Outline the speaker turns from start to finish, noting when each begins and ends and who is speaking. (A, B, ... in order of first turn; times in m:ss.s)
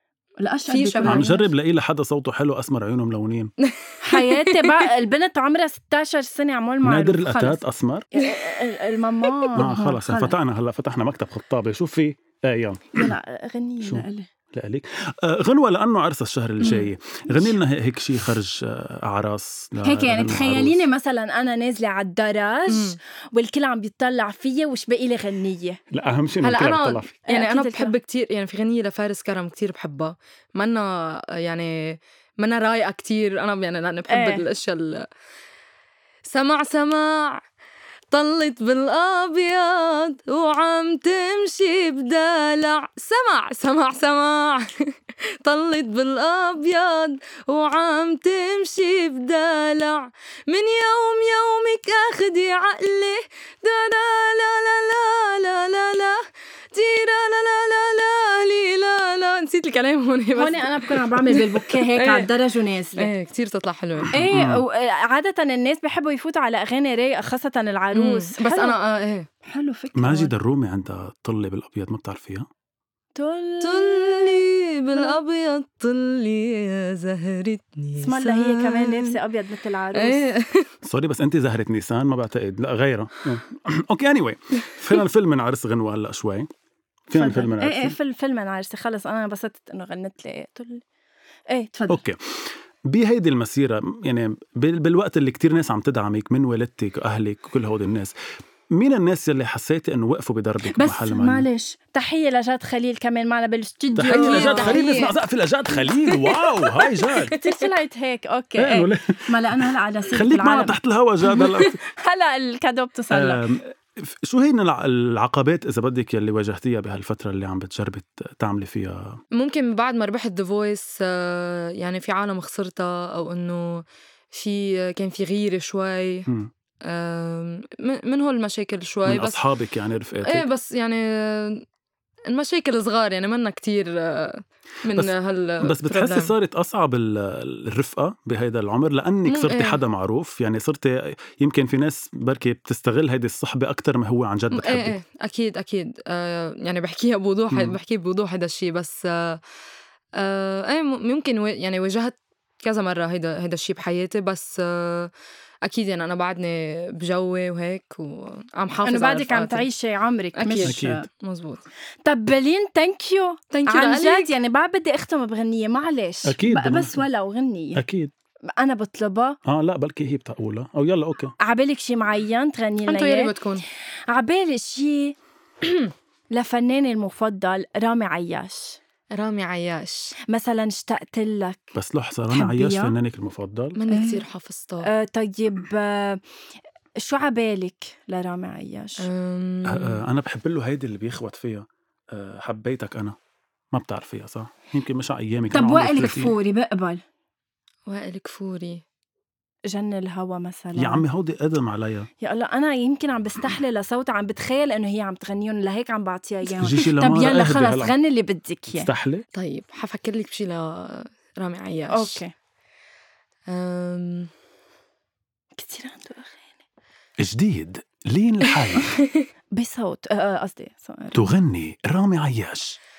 0:00.4-0:01.5 A
0:00.7-0:01.2 B
0:01.0-0:03.5 C
0:03.6-0:04.9 B
0:04.0-0:10.4 A
0:06.8-0:08.1 C
0:09.2-0:09.5 B
0:09.5-0:13.1 C
0:12.9-0:14.3 A
0:13.8-0:20.8 C
0:16.6-0:16.9 B
0:19.8-0:25.8 A
0:22.7-0:23.0 B
0:25.9-0:27.1 C
0:26.4-0:35.0 B
0:27.3-0:27.9 A
0:34.1-0:34.4 A
0:36.3-0:37.4 B
0:38.1-1:02.3 B
1:00.3-1:03.1 A
1:03.0-1:04.2 B
1:04.1-1:08.8 A
1:04.2-1:04.6 C
1:07.9-1:09.3 B
1:09.4-1:10.3 A
1:09.9-1:12.5 C
1:13.1-1:15.2 A
1:13.6-1:19.2 B
1:18.0-1:20.3 A
1:19.9-1:20.7 B
1:20.8-1:26.5 C
1:27.1-1:28.0 C
1:27.1-1:30.8 A
1:31.5-1:32.0 A
1:31.9-1:32.2 C
1:32.8-1:38.1 C
1:38.7-1:41.4 C
1:40.6-1:45.1 A
1:44.0-1:47.3 C
1:44.1-1:45.1 B
1:46.1-1:47.7 B
1:47.3-1:50.8 A
1:48.6-1:51.8 C
1:51.9-1:53.5 A
1:53.1-1:59.2 C
1:59.3-2:06.3 B
2:06.8-2:09.4 B
2:09.0-2:10.4 C
2:10.2-2:11.6 B
2:12.3-2:16.3 B
2:14.9-2:25.0 C
2:19.3-2:19.8 B
2:24.5-2:29.4 B
2:27.5-2:27.8 C
2:30.2-2:35.1 B
2:35.6-2:39.7 B
2:38.8-2:41.1 A
2:40.4-2:41.6 B
2:40.6-2:41.0 C
2:42.0-2:47.8 A
2:43.5-2:44.3 B
2:46.2-2:47.0 C
2:47.7-2:48.1 C
2:48.5-2:49.4 A
2:49.4-2:51.3 C
2:51.4-2:53.3 A
2:52.8-2:53.6 B
2:54.1-2:55.2 A
2:55.6-2:55.9 B
2:56.3-2:58.8 A
2:59.1-3:00.1 B
3:00.3-3:01.7 A
3:01.7-3:03.8 C
3:02.3-3:03.0 A
3:03.8-3:04.9 B
3:03.9-3:04.2 A
3:04.8-3:06.2 A
3:07.0-3:09.1 A
3:09.0-3:10.0 B
3:09.6-3:13.2 C
3:13.7-3:16.3 C
3:15.5-3:17.0 A
3:17.9-3:18.8 B
3:19.7-3:21.0 A
3:20.8-3:22.1 C
3:22.2-3:28.9 A
3:26.6-3:27.9 C
3:28.7-3:29.2 C
3:29.3-3:32.2 B
3:31.9-3:32.3 A
3:33.5-3:34.3 B
3:35.5-3:36.6 A
3:37.2-3:38.9 C
3:38.8-3:39.3 B
3:39.5-3:41.3 A
3:41.1-3:42.8 C